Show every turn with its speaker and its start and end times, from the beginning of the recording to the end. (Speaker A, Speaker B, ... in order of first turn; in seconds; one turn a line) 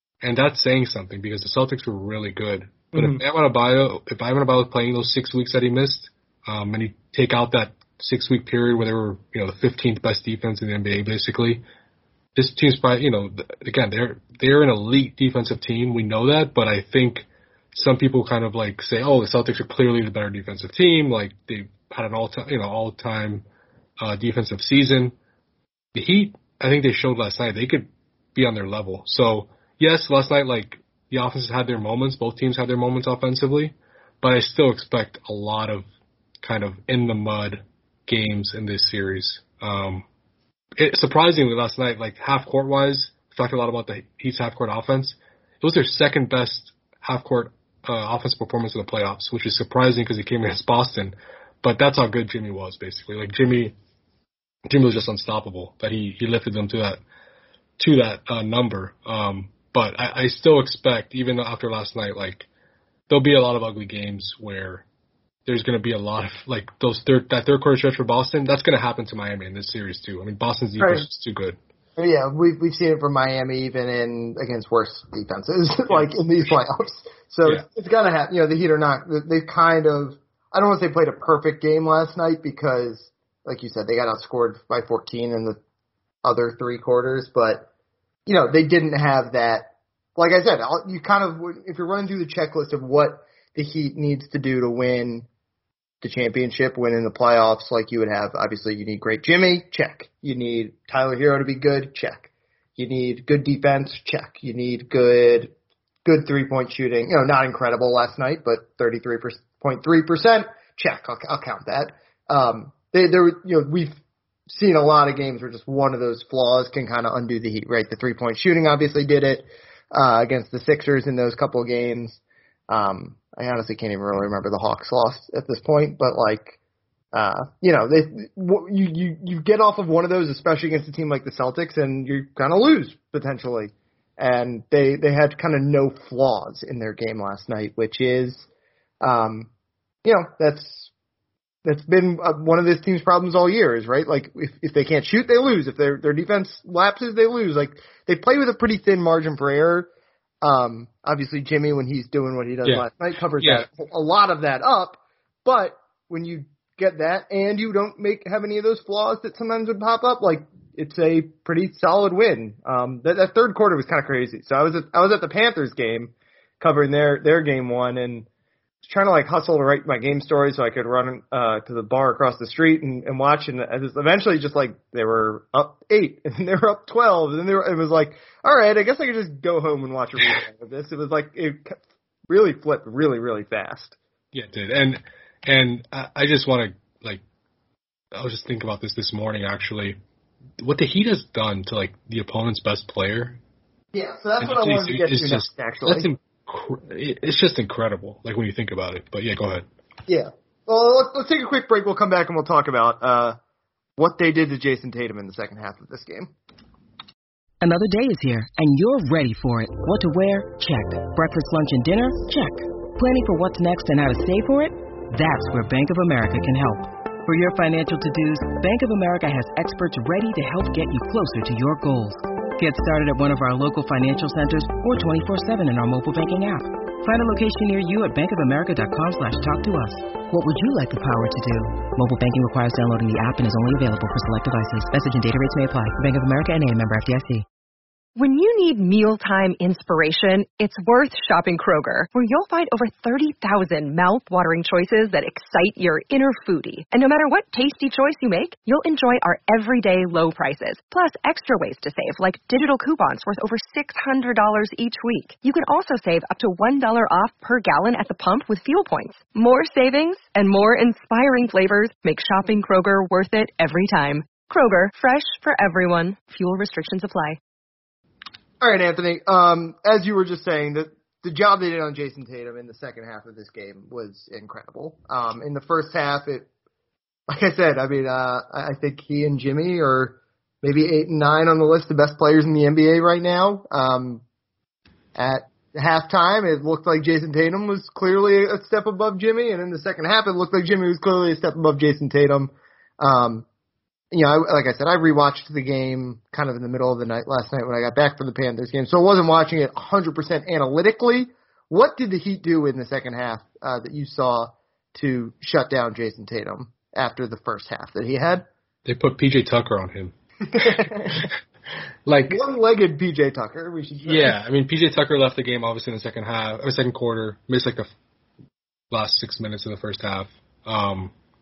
Speaker A: 0.2-11.6
Speaker B: 2.9-3.2
Speaker A: 12.4-23.4
Speaker A: 24.0-25.1
Speaker A: 25.9-35.9
Speaker A: 36.4-40.1
Speaker A: 40.8-53.8
Speaker A: 54.7-57.0
Speaker A: 57.8-62.5
Speaker A: 63.1-64.9
Speaker A: 65.5-71.6
Speaker B: 70.8-71.1
Speaker B: 72.0-85.6
Speaker A: 75.9-76.1
Speaker B: 86.2-87.7
Speaker B: 88.3-95.3
Speaker B: 96.0-105.5
Speaker B: 106.0-114.0
Speaker B: 114.5-126.6
Speaker B: 127.1-138.5
Speaker B: 139.0-139.5
Speaker B: 140.1-140.9
Speaker B: 141.7-149.9
Speaker B: 150.4-168.3
Speaker A: 153.4-153.7
Speaker B: 168.8-184.0
Speaker A: 184.3-187.2
Speaker A: 188.1-190.0
Speaker A: 190.6-193.4
Speaker B: 193.9-196.1
Speaker A: 194.4-199.7
Speaker B: 200.1-203.4
Speaker B: 204.0-206.3
Speaker C: 207.6-237.5
Speaker D: 238.2-267.4
Speaker B: 268.6-276.5
Speaker B: 277.3-284.2
Speaker B: 285.2-293.4
Speaker B: 294.1-308.4
Speaker A: 308.9-311.3
Speaker B: 310.5-311.3
Speaker A: 312.1-312.4
Speaker B: 312.3-314.4
Speaker A: 314.0-317.9
Speaker A: 318.9-321.1